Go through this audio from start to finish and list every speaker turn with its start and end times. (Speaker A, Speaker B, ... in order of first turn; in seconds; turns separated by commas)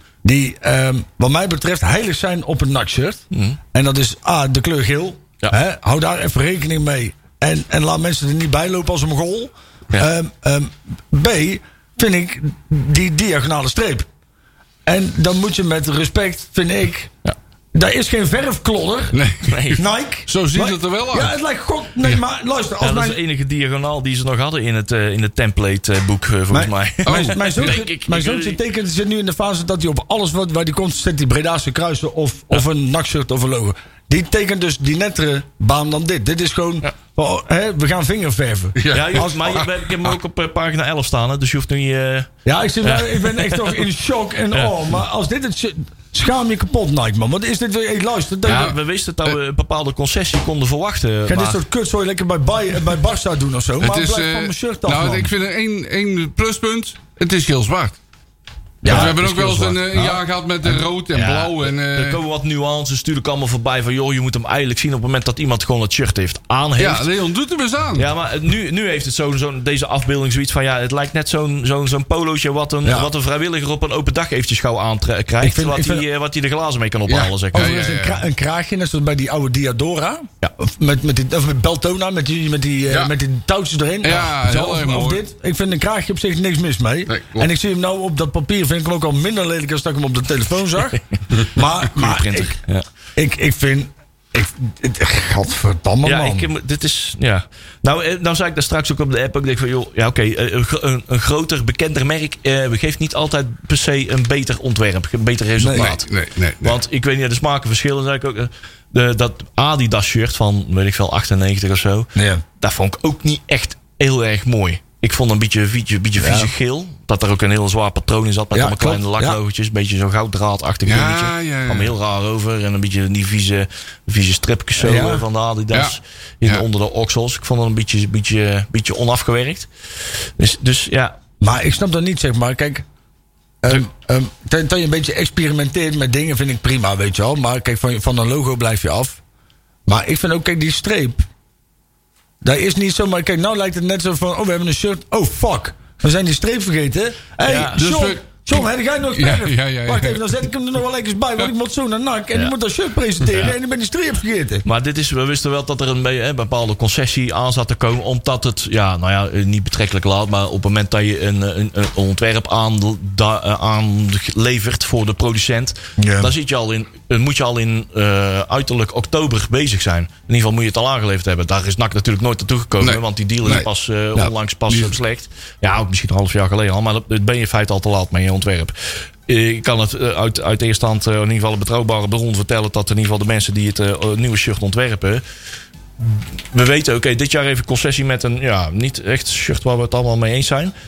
Speaker A: 0.2-14.1, Speaker B: 3.3-3.6, Speaker A: 14.8-17.1, Speaker A: 17.7-19.2, Speaker C: 19.1-21.3, Speaker B: 19.4-19.8, Speaker A: 19.8-23.2, Speaker B: 22.8-28.6, Speaker A: 26.5-39.5, Speaker C: 27.1-27.8, Speaker C: 38.8-39.7, Speaker B: 38.9-42.3, Speaker A: 42.4-48.8, Speaker B: 42.8-43.8, Speaker B: 48.4-51.6, Speaker C: 48.5-48.7, Speaker A: 51.3-55.3, Speaker C: 53.8-58.0, Speaker A: 58.8-60.2, Speaker C: 58.9-62.2, Speaker B: 58.9-59.1, Speaker B: 61.1-67.1, Speaker C: 66.8-68.1, Speaker B: 68.0-77.8, Speaker A: 72.8-73.1, Speaker A: 75.4-76.0, Speaker C: 77.1-78.2, Speaker A: 77.5-92.5, Speaker C: 84.0-85.2, Speaker C: 87.1-87.5, Speaker B: 91.8-92.8, Speaker A: 93.2-96.5, Speaker B: 96.0-106.1, Speaker A: 105.6-105.9, Speaker C: 105.7-106.8, Speaker B: 106.6-131.2, Speaker A: 112.2-112.4, Speaker A: 116.2-116.5, Speaker A: 118.5-119.4, Speaker C: 120.9-121.9, Speaker A: 124.8-125.2, Speaker C: 125.7-126.6, Speaker A: 131.4-132.8, Speaker A: 133.6-139.2, Speaker A: 139.9-141.2, Speaker A: 142.4-154.6, Speaker B: 147.4-147.8, Speaker C: 147.8-150.4, Speaker B: 154.6-178.7, Speaker A: 166.0-166.3, Speaker C: 172.8-173.7, Speaker B: 179.3-185.2, Speaker B: 186.0-190.7